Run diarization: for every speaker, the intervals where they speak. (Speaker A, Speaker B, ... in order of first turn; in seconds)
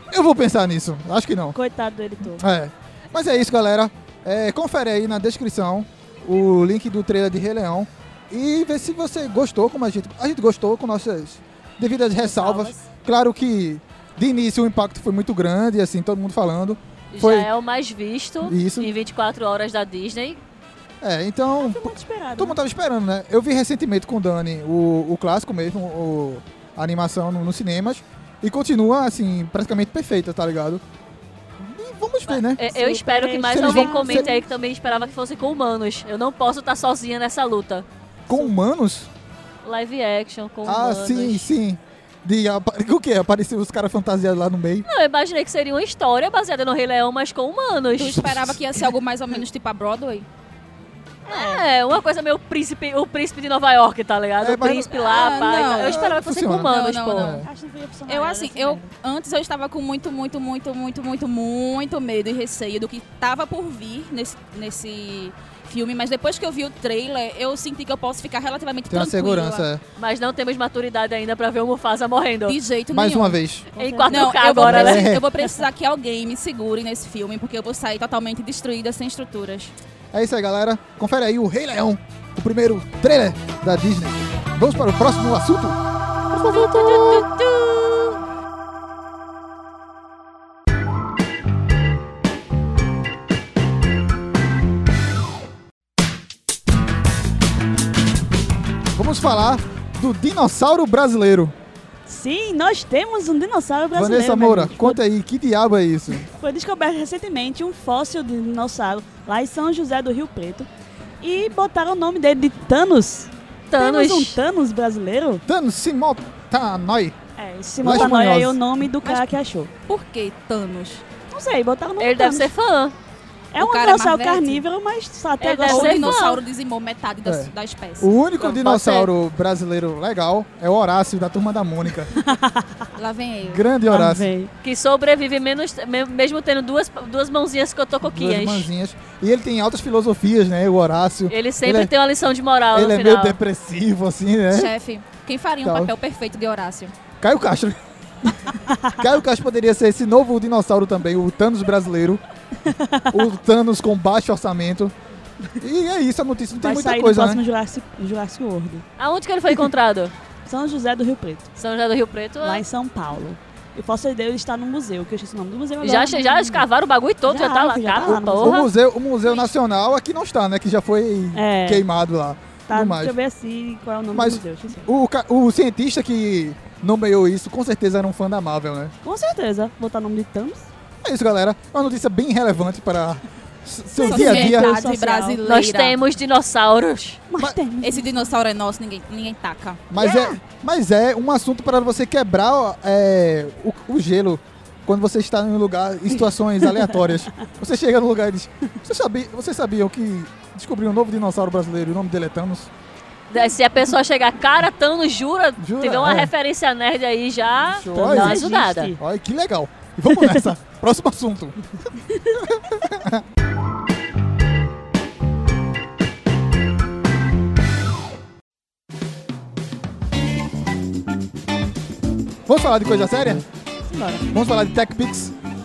Speaker A: 0.1-1.5, 2.4-17.5, 18.4-18.9, 21.0-30.8, 31.6-32.6, 33.5-34.3, 38.3-39.1, 40.6-44.9, 48.0-48.6, 54.4-54.9, 55.6-57.5, 68.9-69.8, 72.9-73.7, 74.6-75.2, 80.1-85.8, 86.3-87.4, 98.9-101.5, 103.9-106.3, 115.5-117.2, 117.8-118.6, 127.2-132.1, 133.4-134.3, 138.1-141.9, 142.7-144.7, 145.6-145.9, 147.2-147.8, 149.0-152.2, 153.1-154.9, 155.6-157.4, 168.3-173.1, 174.1-178.9, 181.0-184.7, 189.9-202.7, 205.6-206.3, 207.7-211.6, 212.4-213.2, 222.5-223.4, 224.3-225.3
Speaker B: 1.5-2.4, 12.2-12.8, 21.6-22.6, 32.6-34.4, 51.3-51.6, 57.4-58.9, 73.7-74.4, 102.0-105.0, 106.3-110.7, 111.2-115.4, 117.4-119.7, 121.3-122.5, 123.5-126.1, 128.4-129.1, 132.1-132.9, 133.9-134.5, 148.7-149.0, 152.6-153.2, 156.6-158.8, 160.4-161.5, 162.4-166.7, 167.3-168.6, 171.3-171.8, 172.7-174.9, 179.0-180.7, 183.9-185.4, 187.3-188.1, 190.0-190.4, 207.9-209.0, 210.1-210.4, 223.9-224.2
Speaker C: 17.1-20.4, 32.3-37.8, 39.6-41.5, 44.8-48.4, 51.3-57.4, 70.0-72.6, 73.7-75.1, 86.5-87.8, 113.7-114.4, 122.0-122.9, 125.5-126.4, 134.6-138.7, 141.3-143.4, 159.0-160.1, 161.6-162.6, 165.8-168.7, 185.4-187.2, 203.3-208.9
Speaker D: 48.0-50.3, 54.9-56.1, 56.7-57.5, 58.1-69.6, 72.5-73.4, 74.1-79.7, 119.0-119.3, 119.9-121.0, 123.6-124.6, 125.4-128.1, 133.0-133.6, 144.5-146.9, 184.0-185.9, 187.8-189.8